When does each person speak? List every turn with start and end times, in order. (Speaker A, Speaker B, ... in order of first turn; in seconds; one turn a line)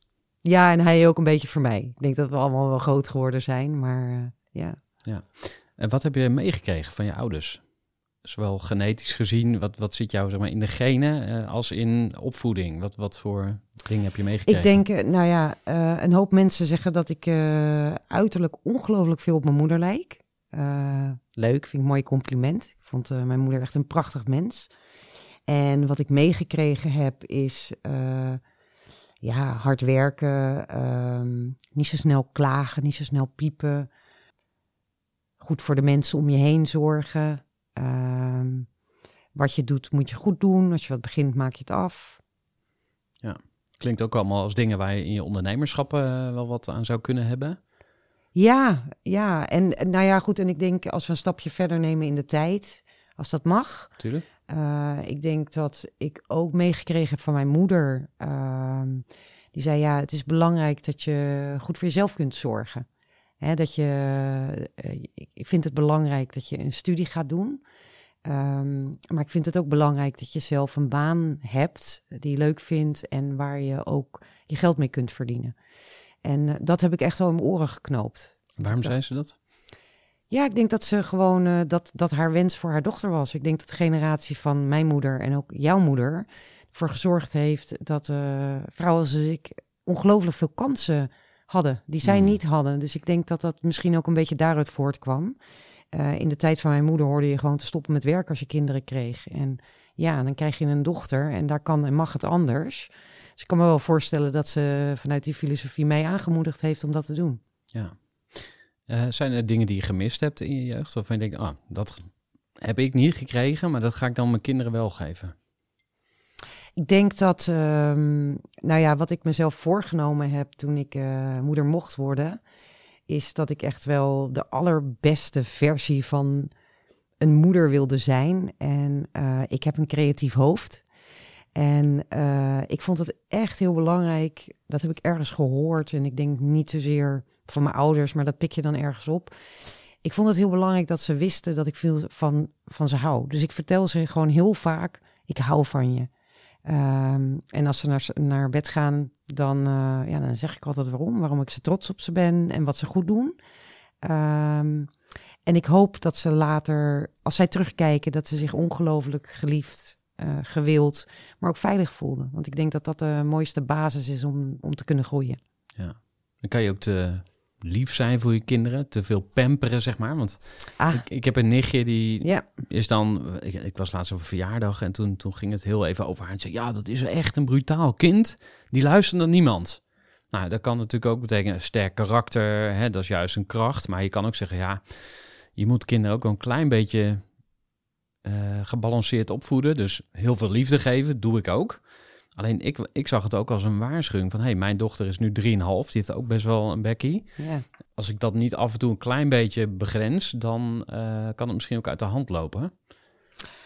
Speaker A: 0.4-4.8
Speaker B: 5.0-7.6
Speaker B: 8.2-14.8
Speaker A: 14.4-24.7
Speaker A: 25.5-28.4
Speaker A: 29.2-33.9
Speaker A: 35.4-38.7
Speaker A: 39.3-42.2
Speaker B: 43.2-47.6
Speaker A: 48.3-53.9
Speaker B: 54.0-54.2
Speaker A: 54.5-62.9
Speaker A: 63.4-67.6
Speaker A: 68.2-75.5
Speaker A: 76.2-78.9
Speaker B: 78.6-79.4
Speaker A: 80.3-95.3
Speaker B: 92.0-92.4
Speaker A: 95.9-107.4
Speaker B: 107.7-115.3
Speaker A: 116.8-122.4
Speaker A: 123.1-126.5
Speaker A: 127.2-130.8
Speaker A: 131.5-139.3
Speaker A: 140.0-146.1
Speaker A: 146.6-153.3
Speaker A: 154.0-154.9
Speaker A: 155.4-165.4
Speaker B: 165.8-184.8
Speaker A: 170.8-171.0
Speaker B: 185.5-187.2
Speaker B: 188.2-191.8
Speaker B: 192.3-197.3
Speaker A: 197.4-197.6
Speaker B: 197.9-202.7